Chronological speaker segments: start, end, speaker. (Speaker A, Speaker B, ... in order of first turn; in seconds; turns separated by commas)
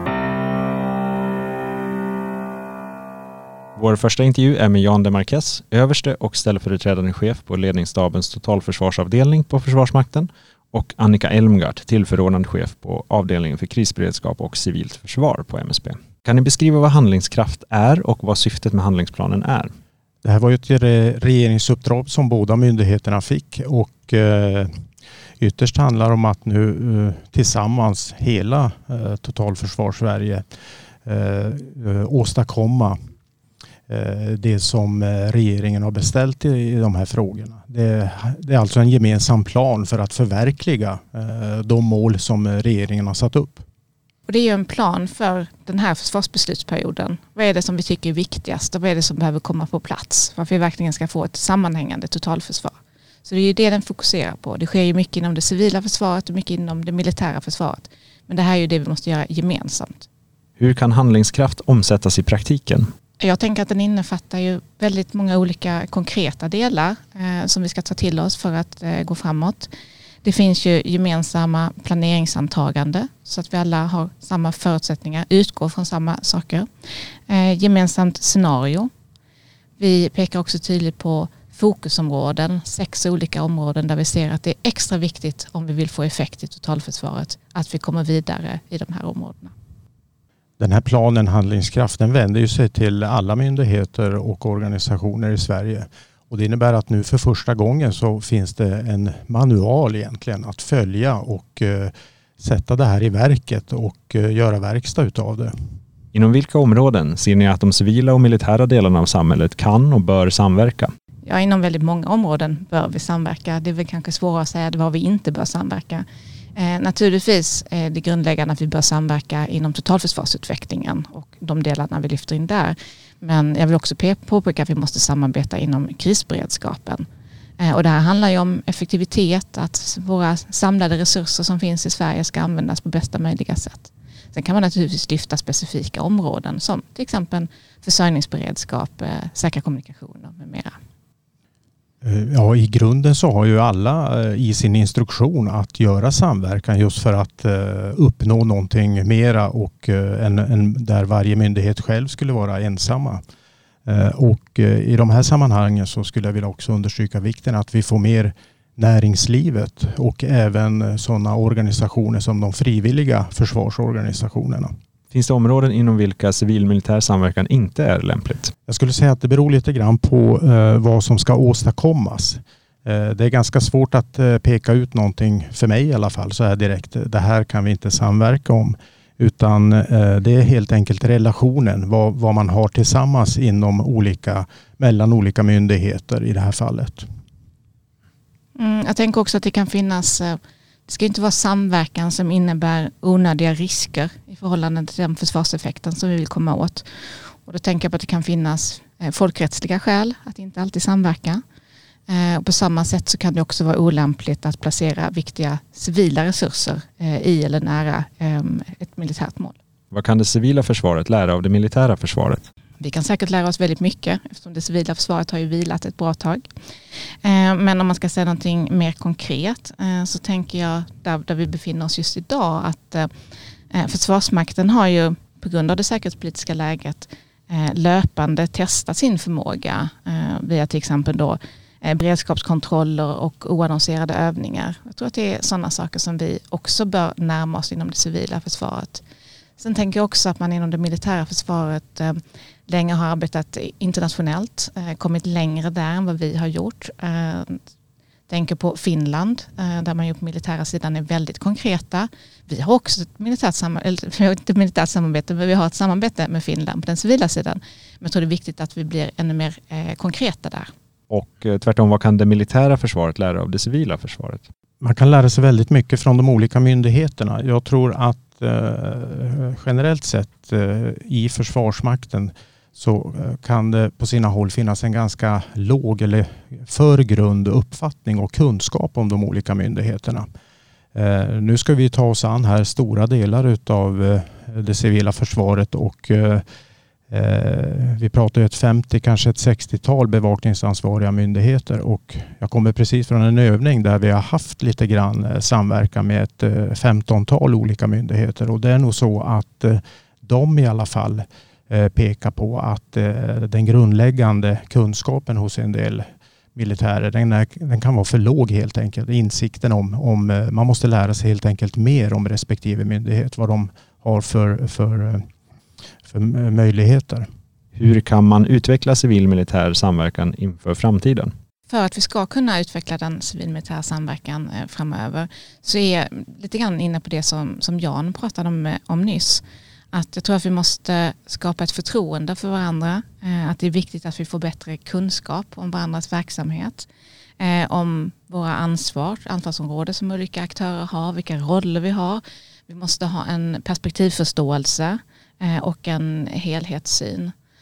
Speaker A: 3.8-19.7, Speaker B: 20.2-24.8, Speaker B: 25.4-30.4, Speaker B: 31.1-33.0, Speaker B: 33.9-43.6, Speaker C: 44.3-60.1, Speaker A: 60.6-62.9, Speaker C: 63.2-69.7, Speaker C: 70.2-76.7, Speaker C: 77.3-78.9, Speaker C: 79.8-89.5, Speaker B: 90.6-105.5, Speaker A: 106.1-110.9, Speaker C: 111.3-116.0, Speaker C: 116.6-127.1, Speaker C: 127.6-140.8, Speaker B: 142.0-153.2, Speaker B: 153.8-164.7, Speaker A: 165.1-168.5, Speaker B: 168.7-187.1, Speaker C: 188.6-201.4, Speaker C: 202.1-209.5, Speaker A: 209.9-212.4, Speaker C: 212.8-216.5, Speaker C: 217.2-223.1, Speaker C: 223.7-239.0, Speaker C: 239.6-247.6, Speaker C: 248.3-260.7, Speaker A: 261.1-264.5, Speaker B: 264.8-280.3, Speaker B: 280.9-286.4, Speaker B: 287.1-315.3, Speaker B: 316.1-317.2, Speaker A: 317.8-321.3, Speaker C: 321.7-336.9, Speaker C: 337.4-347.3